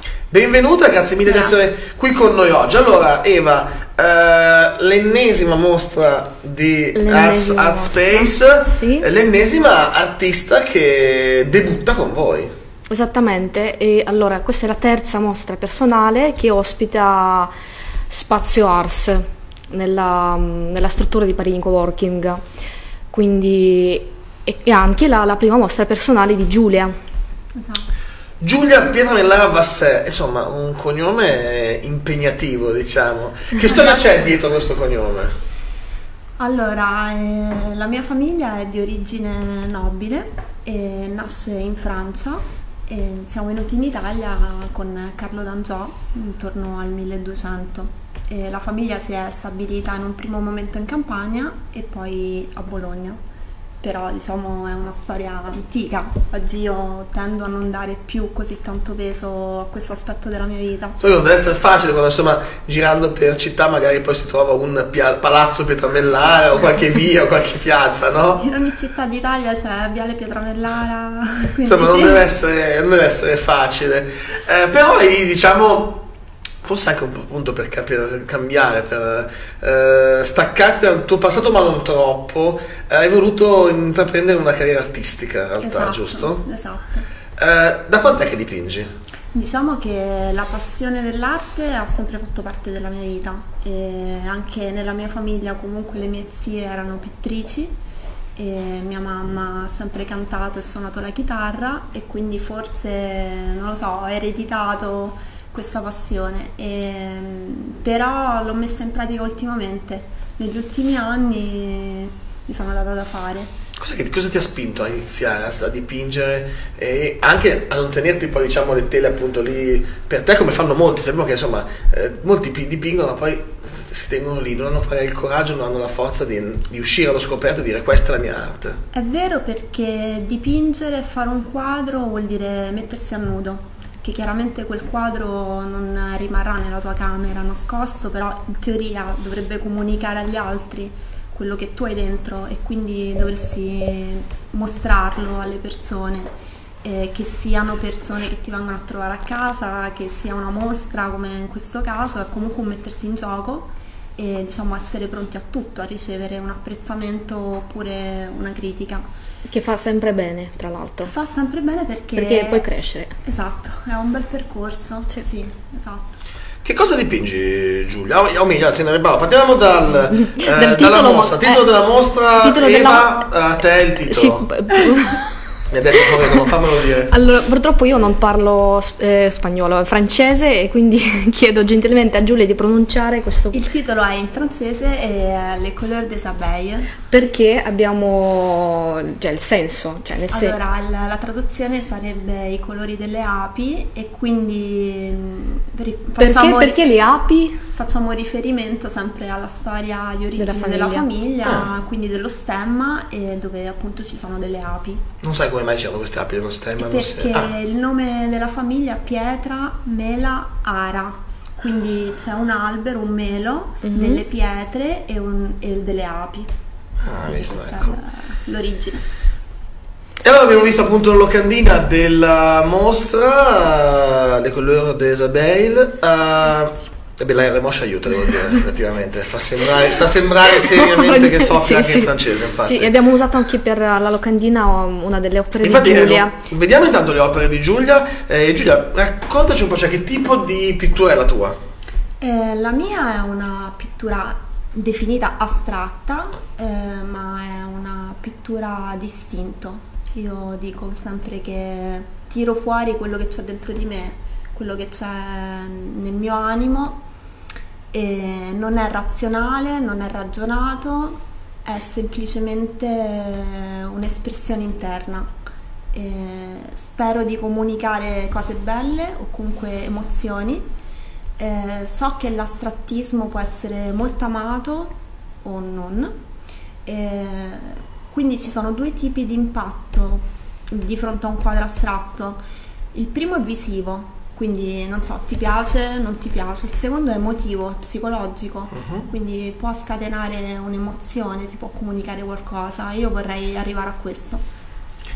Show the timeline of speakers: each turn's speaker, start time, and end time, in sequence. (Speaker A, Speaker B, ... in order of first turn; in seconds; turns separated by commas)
Speaker A: 0.3-12.5, Speaker B: 7.0-9.1, Speaker B: 12.9-17.5, Speaker B: 18.1-22.4, Speaker B: 23.1-26.9, Speaker C: 27.6-27.9, Speaker A: 28.4-35.3, Speaker C: 33.7-34.1, Speaker C: 36.4-53.2, Speaker C: 53.8-61.0, Speaker A: 61.0-68.5, Speaker C: 68.4-72.2, Speaker A: 71.6-76.1, Speaker A: 76.6-86.4, Speaker C: 85.6-87.1, Speaker A: 87.4-88.9, Speaker C: 89.3-97.8, Speaker C: 98.4-113.5, Speaker A: 113.8-128.8, Speaker C: 128.9-159.1, Speaker B: 159.5-161.1, Speaker C: 161.1-162.7, Speaker B: 162.2-163.1, Speaker C: 163.2-166.2, Speaker A: 166.6-174.5, Speaker B: 170.1-171.7, Speaker B: 172.4-173.3, Speaker B: 174.1-175.4, Speaker A: 175.7-177.1, Speaker B: 177.1-183.6, Speaker C: 183.5-186.9, Speaker B: 187.1-190.6, Speaker C: 190.3-196.8, Speaker B: 196.2-197.6, Speaker C: 197.8-205.1, Speaker B: 200.4-201.1, Speaker A: 201.4-201.7, Speaker A: 205.2-207.5, Speaker C: 206.8-216.5, Speaker B: 213.8-214.2, Speaker A: 217.0-218.0, Speaker C: 217.3-219.1, Speaker A: 220.2-232.9, Speaker B: 230.6-236.3, Speaker A: 235.6-241.6, Speaker C: 242.2-257.0, Speaker C: 257.9-265.4, Speaker C: 265.9-270.7, Speaker C: 271.4-276.1, Speaker C: 276.9-282.4, Speaker C: 282.9-294.4, Speaker A: 288.8-289.1